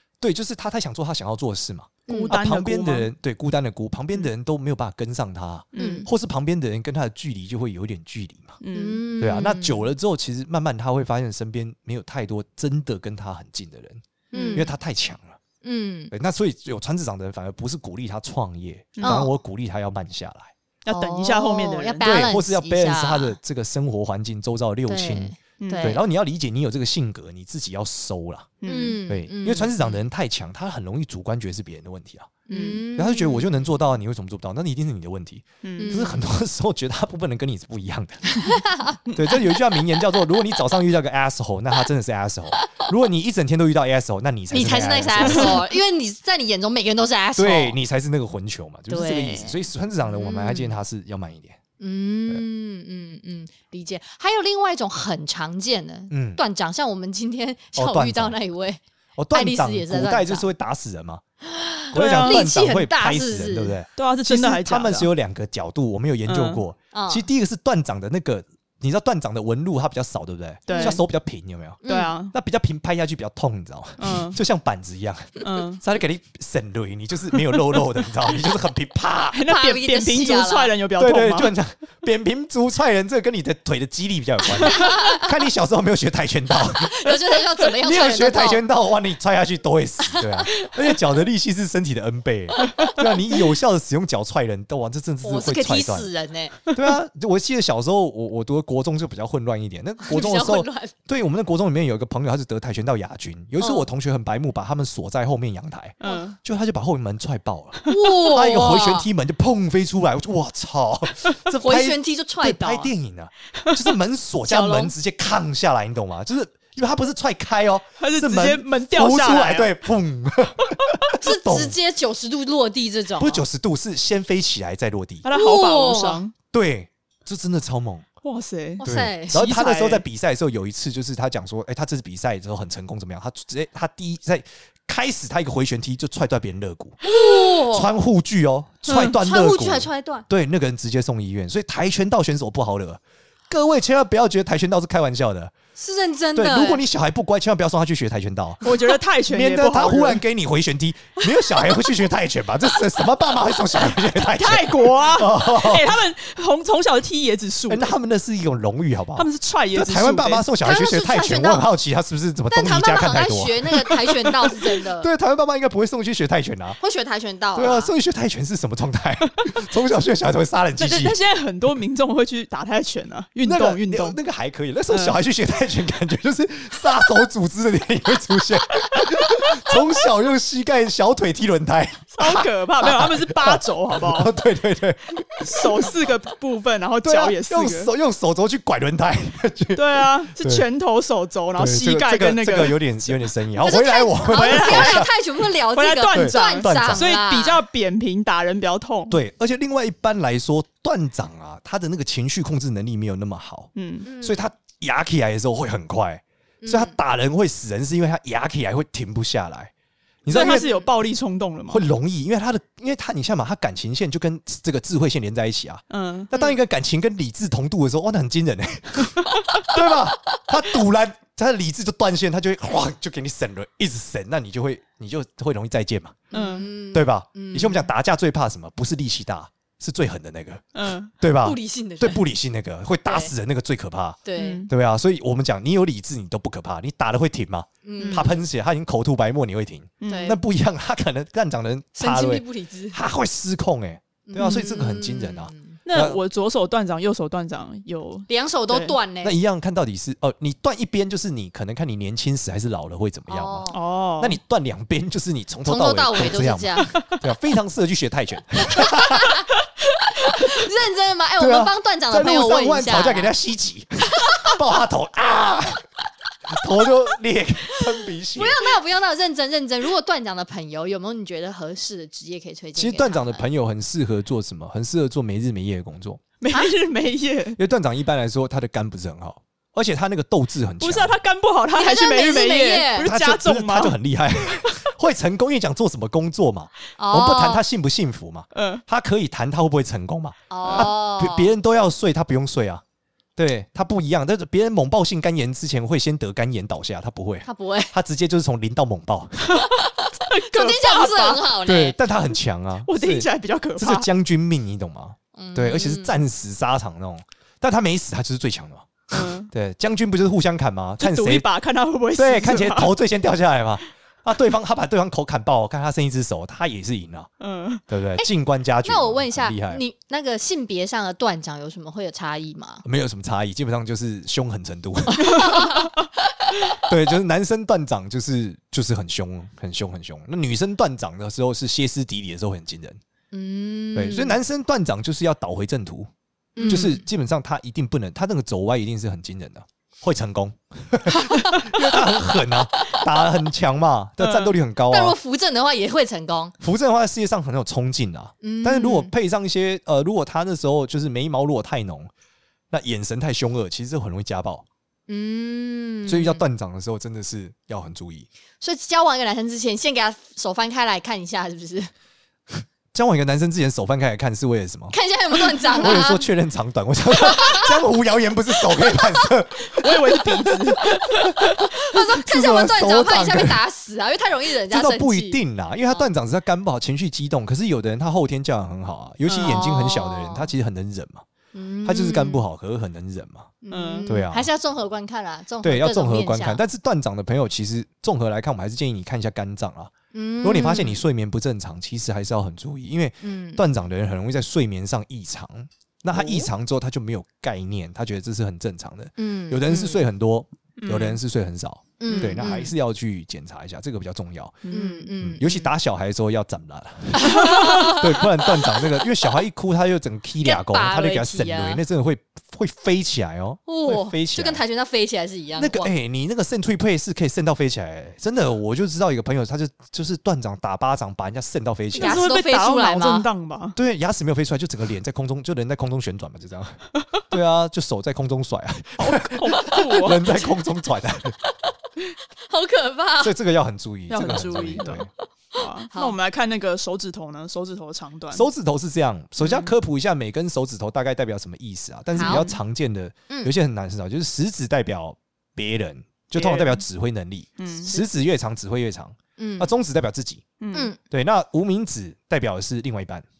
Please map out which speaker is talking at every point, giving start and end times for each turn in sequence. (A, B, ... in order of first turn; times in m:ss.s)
0:00.2-0:08.6 A
0:02.1-0:02.4 B
0:02.1-0:03.1 C
0:05.7-0:06.1 C
0:05.8-0:06.1 B
0:08.6-0:09.0 C
0:08.7-0:09.9 B
0:09.2-0:14.0 A
0:14.3-0:14.7 C
0:14.3-0:14.7 B
0:14.5-0:15.4 A
0:15.6-0:16.1 B
0:16.1-0:20.5 A
0:19.0-0:19.3 C
0:19.0-0:19.3 B
0:20.8-0:22.1 C
0:20.9-0:23.4 B
0:22.0-0:28.5 A
0:24.8-0:26.0 B
0:25.6-0:26.0 C
0:28.6-0:29.0 C
0:28.6-0:30.0 B
0:29.1-0:32.4 A
0:32.5-0:33.7 B
0:32.5-0:32.8 C
0:32.9-0:38.4 A
0:35.6-0:36.0 C
0:35.8-0:36.2 B
0:38.3-0:39.0 B
0:39.1-0:45.6 A
0:42.6-0:42.9 B
0:44.5-0:47.8 B
0:45.2-0:45.5 C
0:47.4-0:51.6 A
0:48.9-0:50.8 B
0:51.8-0:58.8 B
0:56.1-0:56.4 A
0:57.8-0:58.3 A
0:59.2-1:01.2 A
0:59.3-1:00.5 B
1:01.4-1:03.7 B
1:01.9-1:19.4 A
1:01.9-1:02.4 C
1:04.0-1:05.1 C
1:06.2-1:06.6 C
1:06.9-1:07.3 B
1:10.7-1:11.0 C
1:10.7-1:11.0 B
1:11.8-1:12.1 B
1:11.8-1:12.3 C
1:14.0-1:14.4 C
1:15.4-1:15.8 C
1:19.3-1:21.5 C
1:19.4-1:20.7 B
1:21.0-1:27.1 A
1:24.6-1:25.3 B
1:24.7-1:24.9 C
1:26.6-1:28.6 B
1:27.8-1:36.1 A
1:30.0-1:30.7 B
1:35.2-1:36.7 B
1:36.7-2:01.8 A
1:40.0-1:40.9 B
1:43.6-1:43.9 B
1:46.0-1:46.4 C
1:47.9-1:49.1 B
1:51.5-1:52.9 B
1:54.4-1:54.9 B
1:58.0-1:59.7 C
2:01.2-2:03.4 B
2:03.2-2:05.2 A
2:05.2-2:06.3 C
2:05.3-2:06.2 B
2:06.5-2:08.0 A
2:08.2-2:10.0 C
2:08.8-2:09.4 B
2:08.8-2:25.5 A
2:17.0-2:17.9 B
2:18.9-2:19.1 C
2:19.0-2:20.2 B
2:25.8-2:26.8 B
2:26.3-2:28.7 A
2:28.6-2:30.2 C
2:29.2-2:36.0 A
2:34.0-2:37.9 C
2:37.7-2:43.9 A
2:39.1-2:40.5 C
2:40.6-2:41.7 B
2:42.5-2:45.1 B
2:45.0-2:46.8 A
2:46.8-2:47.9 B
2:47.5-2:51.2 A
2:50.8-2:54.2 C
2:53.4-3:05.9 A
2:54.9-2:55.2 C
2:58.9-2:59.8 C
3:02.1-3:04.3 C
3:05.4-3:07.9 C
3:07.0-3:10.6 A
3:09.7-3:13.2 C
3:11.6-3:15.1 A
3:13.6-3:17.6 B
3:14.3-3:15.1 C
3:15.7-3:19.2 C
3:16.1-3:17.1 A
3:19.1-3:29.7 A
3:23.7-3:24.1 C
3:24.0-3:24.4 B
3:26.6-3:26.9 B
3:30.2-3:30.7 A
3:30.3-3:31.9 C
3:30.4-3:30.8 B
3:31.7-3:46.3 A
3:35.9-3:36.4 C
3:46.3-3:47.9 B
3:46.3-3:46.7 C
3:46.8-3:50.6 A
3:50.7-3:51.1 C
3:51.2-4:06.2 A
3:51.4-3:52.2 B
3:53.0-3:53.3 B
3:54.2-3:54.6 B
3:54.4-3:54.7 C
3:57.8-3:58.4 B
3:58.0-3:58.3 C
4:00.0-4:00.4 C
4:00.1-4:00.4 B
4:02.0-4:03.0 B
4:04.3-4:05.8 B
4:04.4-4:04.7 C
4:05.8-4:09.0 C
4:08.3-4:09.4 B
4:09.2-4:13.7 A
4:13.3-4:13.8 B
4:13.7-4:14.4 C
4:14.2-4:19.4 A
4:15.6-4:17.0 B
4:18.8-4:19.5 B
4:20.2-4:23.3 B
4:21.4-4:25.8 A
4:24.2-4:24.5 B
4:26.5-4:28.7 A
4:28.3-4:33.4 B
4:32.8-4:36.2 A
4:36.4-4:37.6 C
4:37.6-4:41.2 A
4:40.8-4:44.8 C
4:41.7-4:43.1 B
4:43.0-4:52.8 A
4:47.0-4:47.6 B
4:48.5-4:48.8 C
4:50.5-4:51.5 B
4:50.6-4:50.9 C
4:53.4-4:59.6 A
4:57.4-4:57.9 B
4:59.4-5:01.5 C
4:59.6-5:02.0 B
5:01.6-5:11.5 A
5:02.8-5:04.1 C
5:05.4-5:06.2 B
5:09.1-5:09.5 C
5:11.0-5:12.9 C
5:12.2-5:17.3 A
5:17.4-5:17.8 C
5:17.9-5:19.8 A
5:18.8-5:22.8 B
5:22.8-5:25.7 A
5:25.2-5:25.7 C
5:25.4-5:25.9 B
5:26.8-5:33.0 A
5:33.3-5:34.4 B
5:33.9-5:36.1 A
5:36.6-5:37.0 B
5:36.6-5:36.9 C
5:36.6-5:45.2 A
5:42.8-5:43.1 B
5:44.2-5:44.5 C
5:44.9-5:46.5 B
5:46.6-5:52.1 A
5:48.4-5:49.1 B
5:52.7-5:54.6 A
5:55.1-5:56.4 B
5:56.0-5:58.3 A
5:58.6-6:01.9 B
6:02.9-6:04.9 A
6:04.9-6:06.2 B
6:05.7-6:09.9 A
6:07.2-6:07.8 B
6:08.6-6:09.3 B
6:09.7-6:11.4 C
6:11.0-6:13.6 A
6:11.1-6:15.4 B
6:14.7-6:21.2 A
6:19.3-6:19.6 C
6:19.4-6:20.5 B
6:21.5-6:22.4 B
6:21.8-6:23.5 A
6:23.6-6:26.6 B
6:23.7-6:24.1 C
6:24.1-6:24.5 A
6:25.6-6:44.7 A
6:30.1-6:31.0 B
6:33.2-6:33.6 B
6:36.1-6:36.5 B
6:39.2-6:40.0 B
6:40.8-6:41.2 C
6:42.0-6:42.7 B
6:42.1-6:42.7 C
6:44.6-6:45.1 C
6:44.7-6:45.7 B
6:45.2-6:54.6 A
6:47.2-6:48.9 B
6:47.2-6:48.0 C
6:50.4-6:51.8 B
6:53.7-6:55.9 B
6:55.6-7:02.2 A
7:01.9-7:03.3 B
7:01.9-7:03.8 C
7:03.8-7:11.4 A
7:09.0-7:10.4 C
7:12.5-7:13.3 B
7:13.2-7:15.1 A
7:14.1-7:18.5 C
7:15.5-7:16.2 B
7:18.3-7:30.4 A
7:19.4-7:19.7 C
7:22.2-7:22.5 C
7:22.2-7:22.5 B
7:26.3-7:26.8 C
7:27.6-7:27.9 C
7:29.4-7:29.7 B
7:30.6-7:30.9 C
7:30.7-7:31.0 B
7:31.1-7:33.2 A